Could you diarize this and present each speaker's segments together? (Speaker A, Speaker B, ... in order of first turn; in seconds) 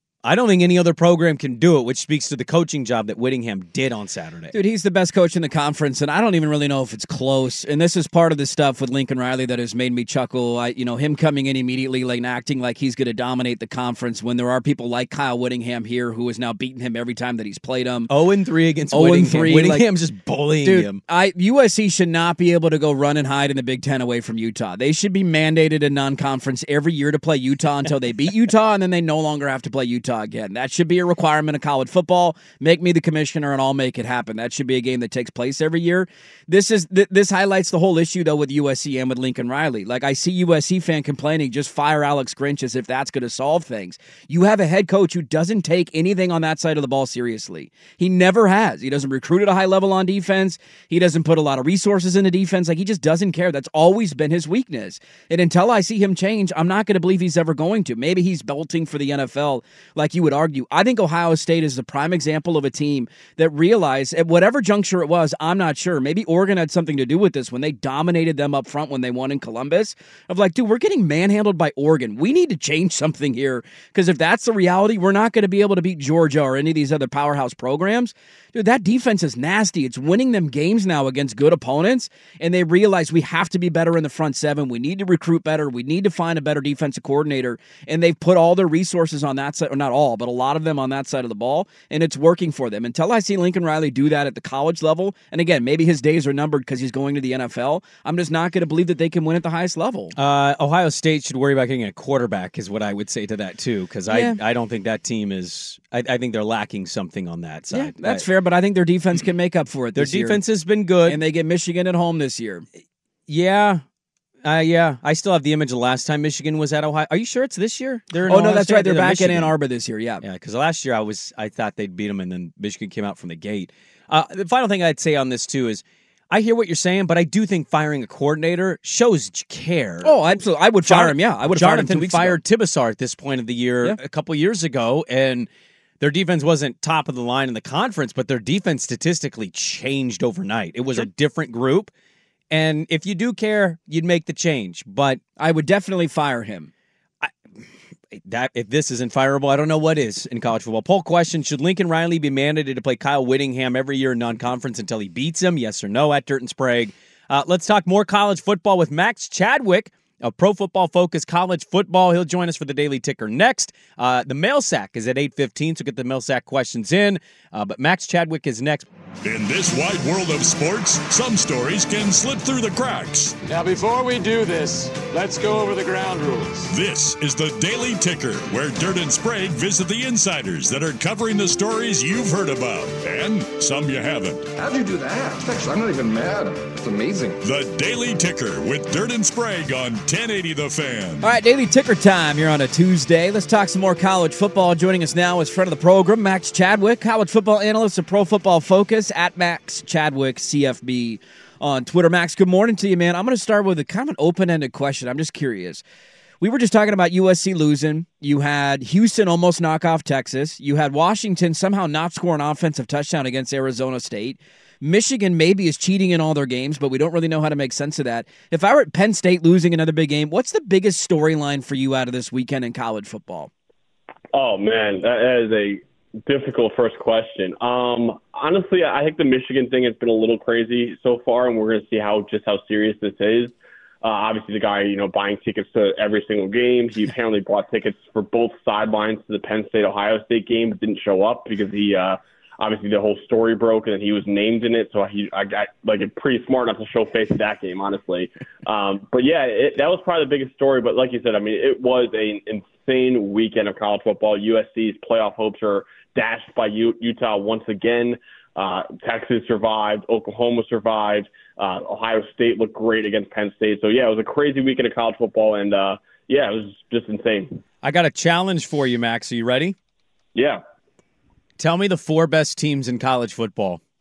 Speaker A: 0.2-4.5, 18.1-21.0, 100.2-108.2, 110.0-111.2, 113.3-113.8, 114.4-119.5, 120.2-130.2, 130.9-135.5, 136.0-141.9, 142.5-145.2, 148.1-168.9, 267.8-269.8, 271.6-273.8
Speaker B: 4.5-18.1, 18.9-19.9, 20.6-100.1, 104.1-104.4, 107.7-110.4, 111.1-112.7, 118.3-120.2, 130.0-132.4, 145.4-146.7, 191.2-205.8, 206.4-223.5
Speaker C: 169.2-173.4, 176.7-184.5, 187.4-191.3
Speaker D: 173.4-176.7
Speaker E: 184.6-187.4
Speaker F: 224.3-267.6, 270.4-270.6